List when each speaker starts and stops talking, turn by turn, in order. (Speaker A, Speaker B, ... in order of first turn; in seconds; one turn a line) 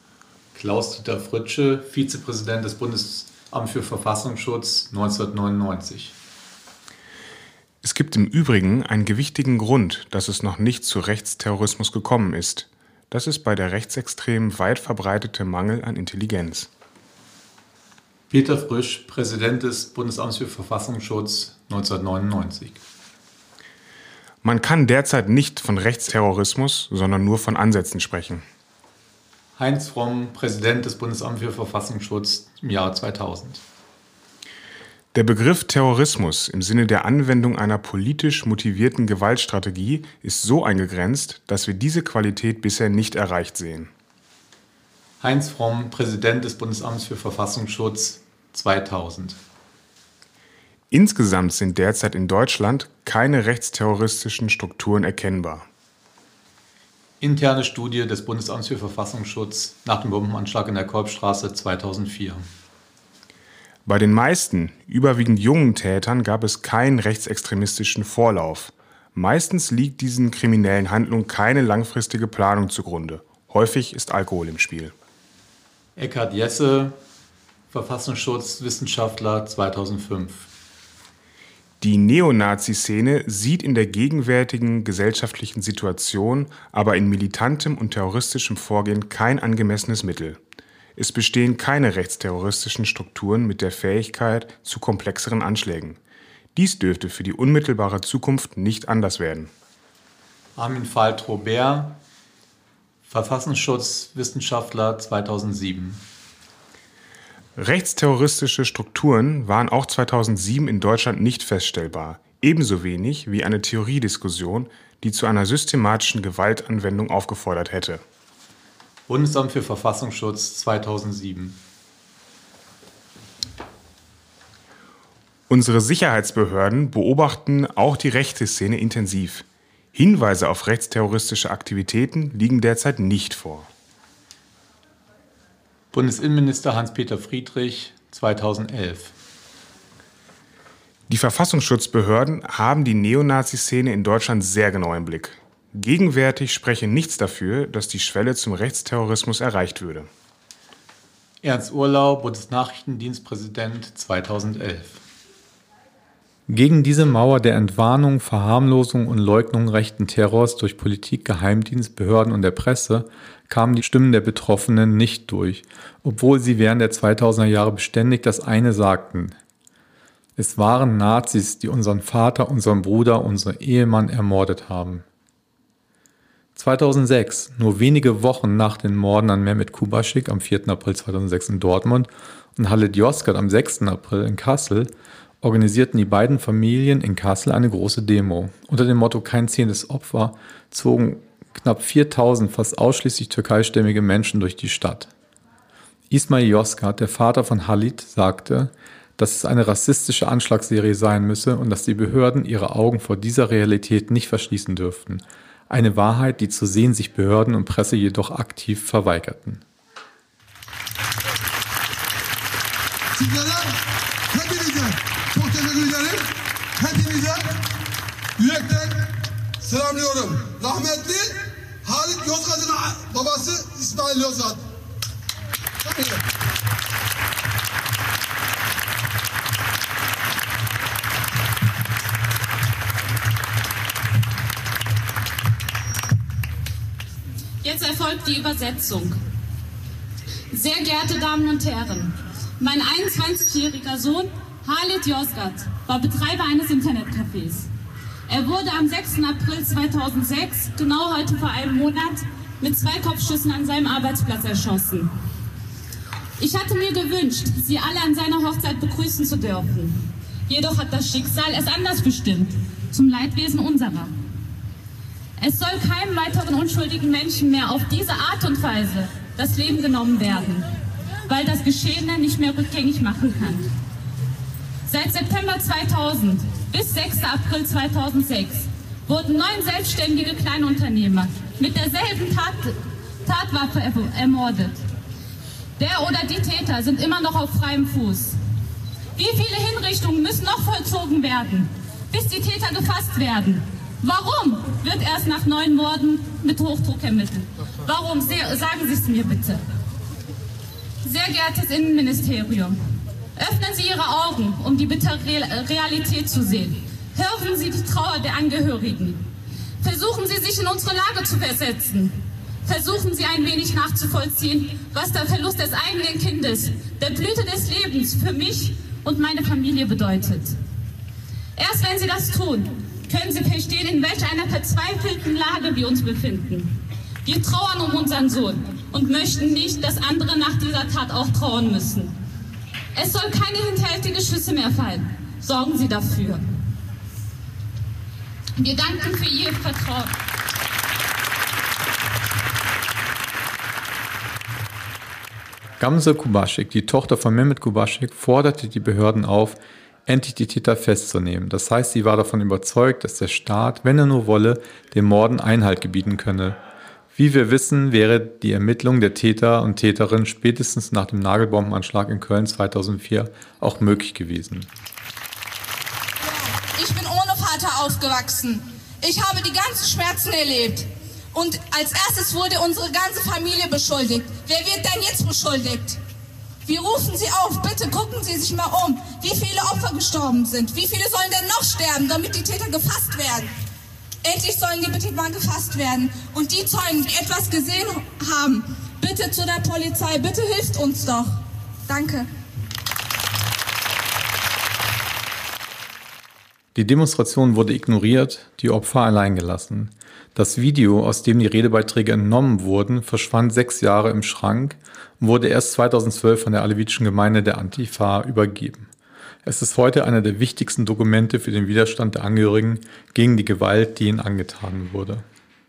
Speaker A: 0.5-6.1
Speaker B: 7.8-16.7
Speaker A: 18.3-22.8
Speaker B: 24.4-28.4
Speaker A: 29.6-33.6
Speaker B: 35.1-43.9
Speaker A: 45.2-49.4
Speaker B: 50.9-55.7
Speaker A: 57.2-62.5
Speaker B: 63.8-74.9
Speaker A: 76.0-77.0
Speaker A: 77.7-80.5
Speaker B: 81.8-90.4
Speaker B: 91.0-96.0
Speaker B: 96.5-99.5
Speaker A: 100.5-102.0
Speaker A: 103.1-106.0
Speaker B: 107.5-118.0
Speaker A: 119.1-121.6
Speaker B: 125.5-133.7
Speaker A: 135.9-139.1
Speaker B: 141.1-150.1
Speaker A: 151.4-155.0
Speaker A: 156.5-169.3
Speaker A: 170.4-175.0
Speaker A: 176.5-195.1
Speaker A: 196.1-209.6
Speaker C: 213.1-213.8
Speaker C: 214.3-217.5
Speaker C: 218.4-219.1
Speaker C: 219.6-224.7
Speaker C: 225.8-226.2
Speaker D: 237.6-239.2
Speaker D: 240.5-247.7
Speaker D: 248.3-255.1
Speaker D: 256.4-264.1
Speaker D: 265.4-270.6
Speaker D: 271.3-273.7
Speaker D: 274.9-284.8
Speaker D: 285.8-288.4
Speaker D: 289.1-299.6
Speaker D: 301.0-302.8
Speaker D: 303.4-309.2
Speaker D: 309.8-320.6
Speaker D: 321.6-326.7
Speaker D: 327.2-332.1
Speaker D: 332.9-336.4
Speaker D: 338.6-340.1
Speaker A: 345.8-356.6
Speaker A: 357.1-364.7
Speaker E: 366.8-376.0
Speaker E: 376.6-383.5
Speaker E: 384.2-391.4
Speaker E: 391.9-392.2
Speaker A: 396.7-408.9
Speaker A: 409.4-415.2